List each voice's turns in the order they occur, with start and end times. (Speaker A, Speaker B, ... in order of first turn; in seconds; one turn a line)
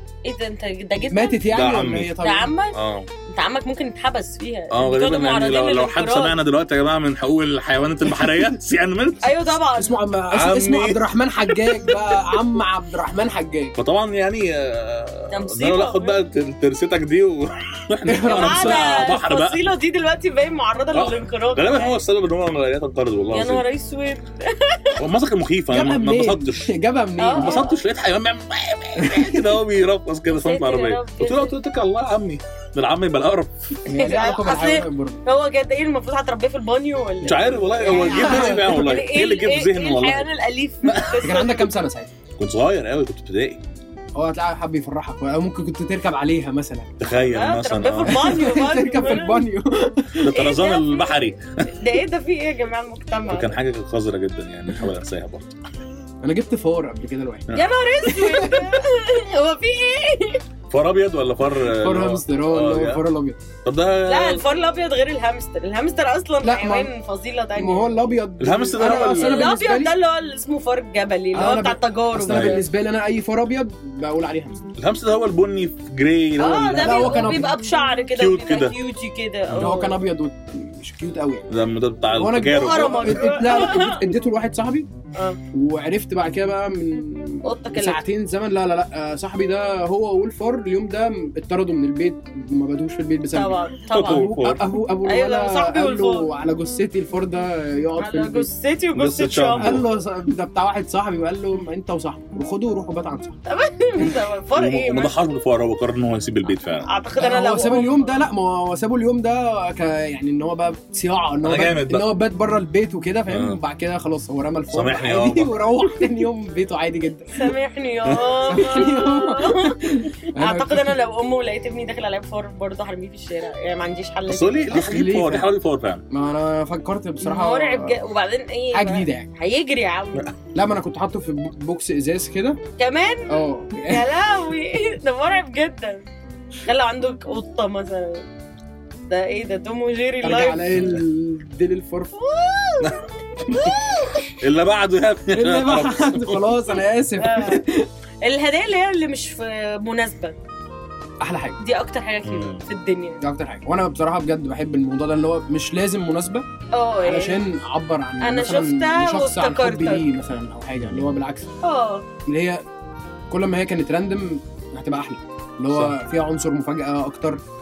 Speaker A: 0.2-1.4
Speaker B: 1.1-2.5
Speaker C: 1.5-2.1
Speaker A: 2.2-2.7
Speaker C: 2.7-3.1
Speaker A: 3.3-6.3
Speaker C: 4.7-9.4
Speaker B: 8.1-8.6
Speaker A: 9.2-10.0
Speaker B: 9.8-13.8
Speaker C: 10.3-11.0
Speaker C: 11.7-12.0
Speaker C: 13.8-19.6
Speaker A: 15.3-16.1
Speaker B: 18.1-18.9
Speaker A: 18.3-22.0
Speaker C: 20.9-23.6
Speaker A: 23.3-25.0
Speaker C: 25.0-26.7
Speaker B: 25.7-27.6
Speaker A: 27.2-27.7
Speaker C: 27.4-33.8
Speaker B: 29.0-29.5
Speaker A: 30.3-31.5
Speaker B: 33.9-35.2
Speaker A: 33.9-41.7
Speaker C: 37.2-40.3
Speaker B: 37.8-38.8
Speaker C: 40.8-41.2
Speaker B: 41.2-42.1
Speaker C: 42.4-43.6
Speaker B: 44.1-46.9
Speaker C: 47.0-48.5
Speaker A: 47.3-49.5
Speaker B: 48.1-50.3
Speaker C: 50.2-51.7
Speaker A: 50.2-53.6
Speaker C: 53.3-55.5
Speaker B: 56.2-57.5
Speaker A: 57.5-60.4
Speaker B: 58.0-58.7
Speaker C: 60.7-63.0
Speaker B: 61.6-63.4
Speaker C: 63.6-64.4
Speaker A: 64.0-68.0
Speaker B: 66.4-66.9
Speaker B: 67.5-69.9
Speaker C: 68.4-69.5
Speaker A: 68.8-72.6
Speaker B: 71.3-74.6
Speaker C: 72.3-72.6
Speaker C: 74.8-77.2
Speaker A: 76.4-80.0
Speaker B: 76.8-77.5
Speaker C: 78.2-78.8
Speaker B: 79.5-81.5
Speaker C: 81.5-83.3
Speaker B: 82.1-84.9
Speaker A: 82.5-84.0
Speaker B: 85.5-98.5
Speaker A: 87.4-88.0
Speaker A: 93.3-94.3
Speaker C: 93.9-94.6
Speaker A: 95.0-96.3
Speaker A: 98.0-99.8
Speaker C: 98.9-99.8
Speaker B: 99.6-103.4
Speaker A: 103.5-105.1
Speaker C: 104.1-106.9
Speaker A: 106.9-108.2
Speaker B: 107.2-117.4
Speaker C: 111.4-112.1
Speaker C: 113.3-113.6
Speaker C: 114.7-115.5
Speaker A: 117.3-125.0
Speaker B: 118.5-121.0
Speaker C: 124.3-126.0
Speaker B: 124.7-125.5
Speaker B: 126.1-128.0
Speaker A: 127.2-130.3
Speaker B: 128.7-129.3
Speaker B: 130.5-132.6
Speaker A: 132.8-136.0
Speaker B: 133.3-134.1
Speaker A: 136.6-138.3
Speaker A: 139.1-140.9
Speaker B: 140.2-142.1
Speaker C: 140.7-141.0
Speaker A: 142.1-144.4
Speaker C: 142.8-143.7
Speaker C: 144.4-146.4
Speaker B: 145.3-147.9
Speaker A: 147.2-147.6
Speaker A: 148.2-150.3
Speaker B: 151.2-151.6
Speaker A: 151.6-153.2
Speaker C: 152.2-152.6
Speaker B: 153.2-156.4
Speaker A: 156.7-157.4
Speaker B: 157.0-161.6
Speaker A: 158.2-160.0
Speaker C: 160.8-161.1
Speaker A: 161.6-162.0
Speaker B: 162.2-162.6
Speaker B: 163.3-167.4